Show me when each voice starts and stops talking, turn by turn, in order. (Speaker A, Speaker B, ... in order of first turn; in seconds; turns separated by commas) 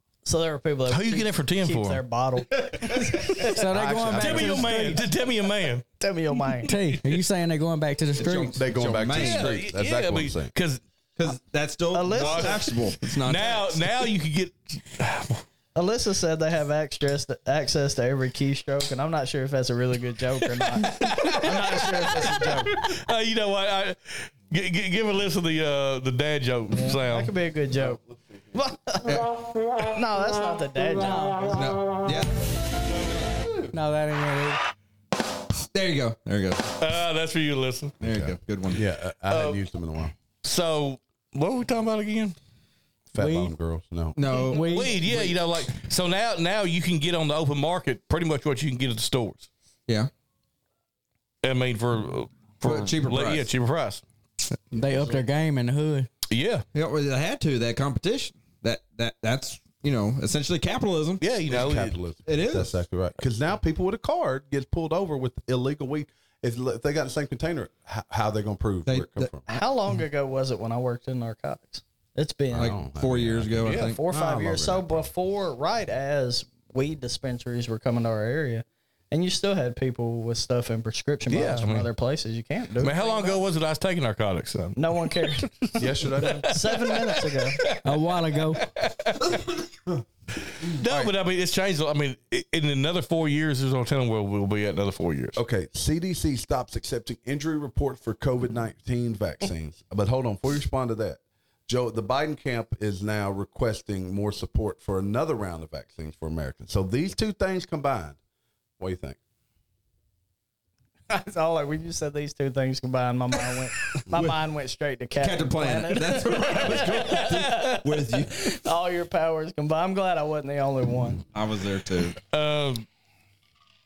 Speaker A: 0.2-3.7, Speaker B: 0.9-2.0, Speaker C: 2.7-3.2, Speaker D: 3.5-5.0, Speaker E: 3.7-5.0, Speaker B: 4.1-5.8, Speaker A: 6.0-6.7, Speaker D: 6.6-8.6, Speaker B: 6.7-7.0, Speaker C: 8.2-9.5, Speaker E: 8.6-10.5, Speaker B: 9.1-10.8, Speaker C: 11.2-14.0, Speaker A: 11.9-12.7, Speaker B: 12.1-12.6, Speaker B: 13.2-15.4, Speaker A: 15.7-22.8, Speaker B: 20.6-27.3, Speaker A: 26.7-28.0, Speaker A: 28.5-29.2, Speaker C: 29.0-29.3, Speaker A: 29.8-31.8, Speaker D: 31.0-31.6, Speaker C: 31.5-32.4, Speaker D: 33.7-34.6, Speaker C: 35.7-36.7, Speaker B: 36.8-37.9, Speaker C: 38.0-38.8, Speaker E: 38.0-40.1, Speaker B: 39.3-39.6, Speaker B: 40.4-42.4, Speaker E: 43.1-44.2, Speaker D: 43.1-43.5, Speaker C: 44.1-44.9, Speaker D: 44.5-45.0, Speaker B: 44.5-49.5, Speaker B: 51.4-54.0, Speaker C: 52.6-53.5, Speaker D: 54.7-56.1, Speaker B: 56.3-56.6, Speaker C: 56.7-61.2, Speaker B: 61.2-62.0, Speaker E: 61.5-69.5, Speaker C: 62.2-62.8, Speaker C: 68.9-69.3, Speaker A: 69.5-72.8, Speaker E: 72.5-73.8, Speaker C: 72.5-75.0, Speaker B: 73.6-74.0, Speaker A: 73.7-83.4, Speaker B: 81.3-81.9, Speaker B: 82.8-87.8, Speaker A: 84.8-85.5, Speaker E: 85.8-86.5, Speaker A: 86.5-87.7, Speaker D: 87.8-88.7, Speaker B: 88.3-89.3, Speaker B: 90.6-95.4, Speaker E: 90.8-91.1, Speaker E: 95.3-108.2, Speaker E: 108.8-109.2, Speaker A: 111.1-121.2, Speaker C: 115.2-118.6, Speaker B: 116.4-117.8, Speaker C: 121.3-122.2, Speaker B: 122.3-122.8